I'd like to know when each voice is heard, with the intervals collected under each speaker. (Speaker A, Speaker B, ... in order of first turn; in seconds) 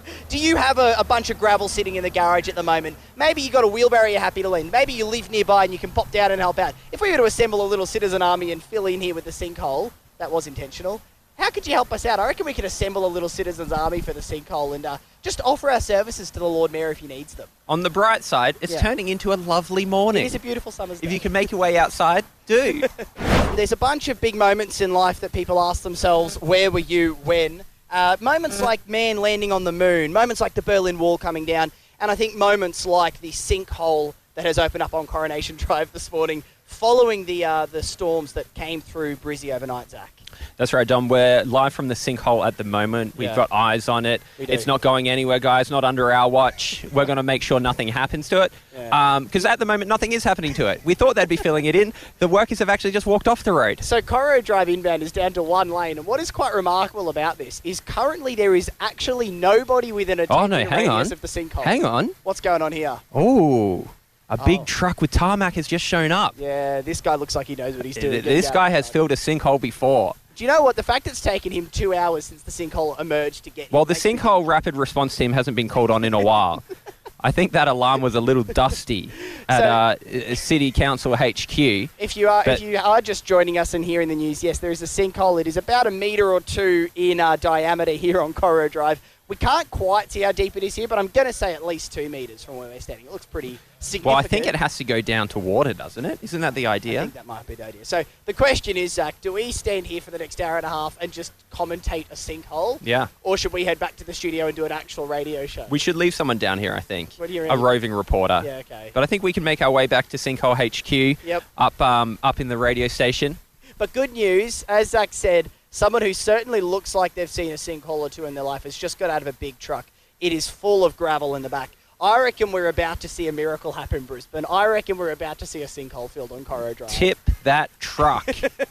Speaker A: 0.3-17.5, 20.1-21.3, 23.5-40.2, 43.2-43.4, 44.4-44.7, 53.8-63.0, 64.4-64.7, 66.3-69.0, 70.3-74.5, 79.5-79.8, 82.0-94.5, 96.9-105.8, 107.2-107.7, 108.4-108.9, 113.8-127.1
Speaker B: 17.7-20.4, 21.0-22.9, 40.6-53.8, 60.3-62.2, 63.1-66.3, 68.0-70.2, 73.7-76.7, 77.2-81.9, 94.0-97.1, 102.8-103.1, 105.7-113.4, 126.9-128.4